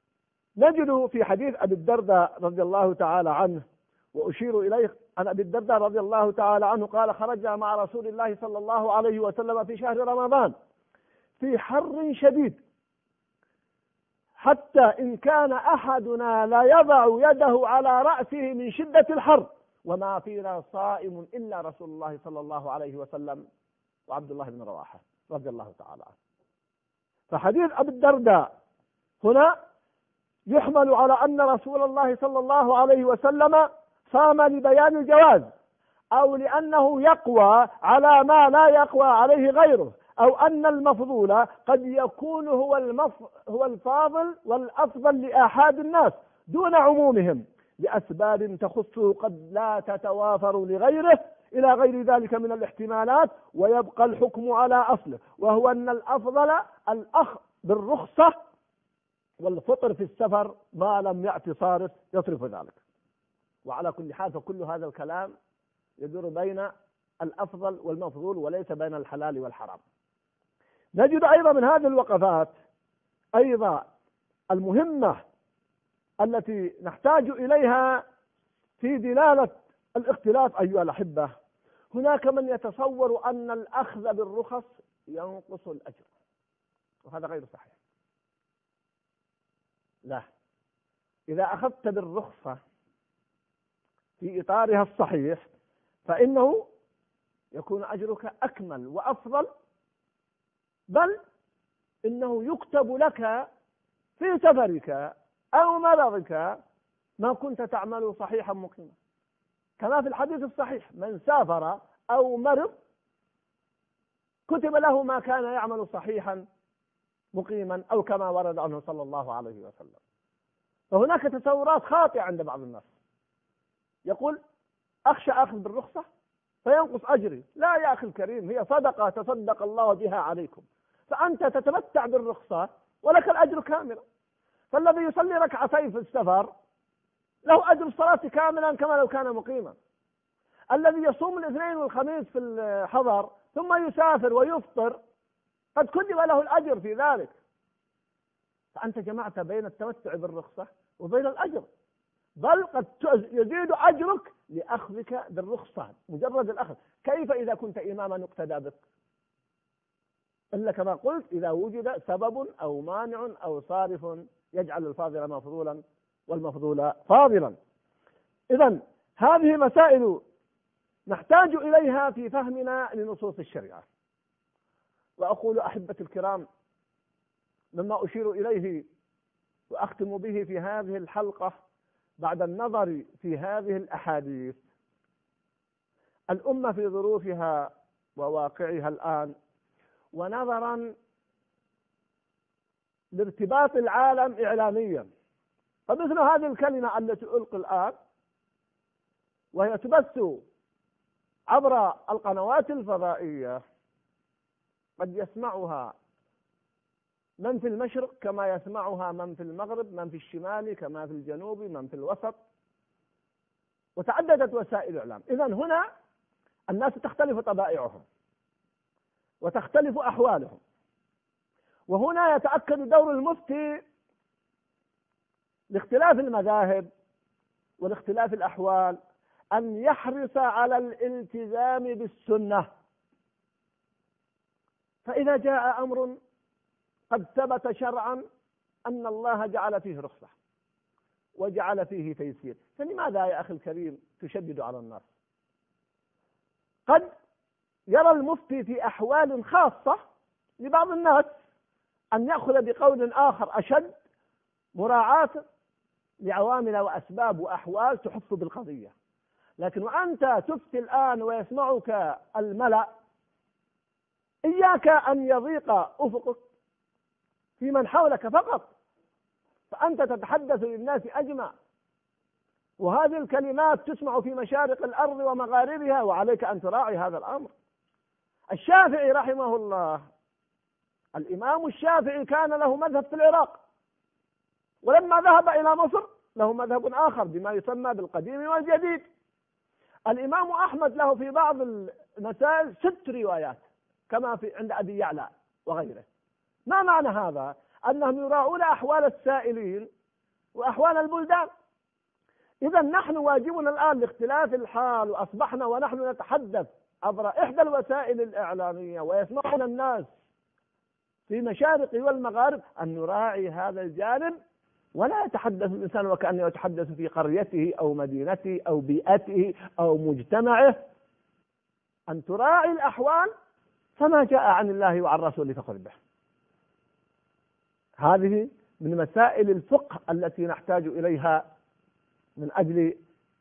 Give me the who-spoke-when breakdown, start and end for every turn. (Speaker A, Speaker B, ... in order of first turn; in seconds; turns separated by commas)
Speaker A: 0.6-10.5, Speaker A: 11.4-12.6, Speaker A: 14.4-23.4, Speaker A: 24.1-26.1, Speaker A: 27.3-28.5, Speaker A: 29.2-29.5, Speaker A: 30.5-35.5, Speaker A: 36.1-58.4, Speaker A: 59.4-62.8, Speaker A: 63.6-65.3, Speaker A: 66.0-69.8, Speaker A: 71.0-72.5, Speaker A: 73.4-73.8, Speaker A: 74.5-75.2, Speaker A: 76.2-78.0, Speaker A: 78.8-81.3, Speaker A: 81.9-86.1, Speaker A: 87.0-87.8, Speaker A: 91.3-92.6, Speaker A: 94.2-95.5, Speaker A: 96.0-96.7, Speaker A: 97.5-99.5, Speaker A: 100.9-101.2, Speaker A: 102.0-103.5, Speaker A: 104.2-106.6, Speaker A: 107.2-109.0, Speaker A: 109.8-112.7, Speaker A: 114.5-116.5, Speaker A: 117.3-120.0, Speaker A: 120.9-122.9, Speaker A: 124.0-124.4, Speaker A: 125.1-126.0, Speaker A: 126.6-134.0, Speaker A: 134.7-136.5, Speaker A: 137.4-139.8, Speaker A: 140.7-145.0, Speaker A: 145.8-147.3, Speaker A: 148.7-151.7, Speaker A: 152.4-158.8, Speaker A: 160.5-167.6, Speaker A: 168.5-170.2, Speaker A: 171.1-173.8, Speaker A: 175.2-176.5, Speaker A: 177.7-178.9, Speaker A: 179.7-181.5, Speaker A: 182.2-184.6, Speaker A: 186.3-189.3, Speaker A: 190.1-190.9, Speaker A: 193.1-195.1, Speaker A: 195.9-197.9, Speaker A: 199.5-200.4, Speaker A: 201.5-203.6, Speaker A: 205.0-205.9, Speaker A: 207.4-212.4, Speaker A: 214.0-215.8, Speaker A: 216.7-218.0, Speaker A: 219.4-220.6, Speaker A: 221.9-223.8, Speaker A: 225.7-226.9, Speaker A: 227.8-229.0, Speaker A: 229.5-232.7, Speaker A: 235.0-236.2, Speaker A: 237.1-238.2, Speaker A: 238.9-240.3, Speaker A: 241.4-245.1, Speaker A: 247.9-250.0, Speaker A: 250.6-251.3, Speaker A: 252.1-253.9, Speaker A: 254.8-255.4, Speaker A: 256.2-258.9, Speaker A: 259.6-262.9, Speaker A: 264.5-266.4, Speaker A: 267.6-268.7, Speaker A: 269.7-271.5, Speaker A: 272.8-277.5, Speaker A: 278.5-280.0, Speaker A: 281.2-283.6, Speaker A: 284.8-289.1, Speaker A: 290.1-296.0, Speaker A: 296.7-299.9, Speaker A: 300.5-301.5, Speaker A: 302.6-310.1, Speaker A: 311.3-314.4, Speaker A: 315.0-320.8, Speaker A: 322.1-323.3, Speaker A: 324.0-326.0, Speaker A: 328.0-331.5, Speaker A: 332.4-333.0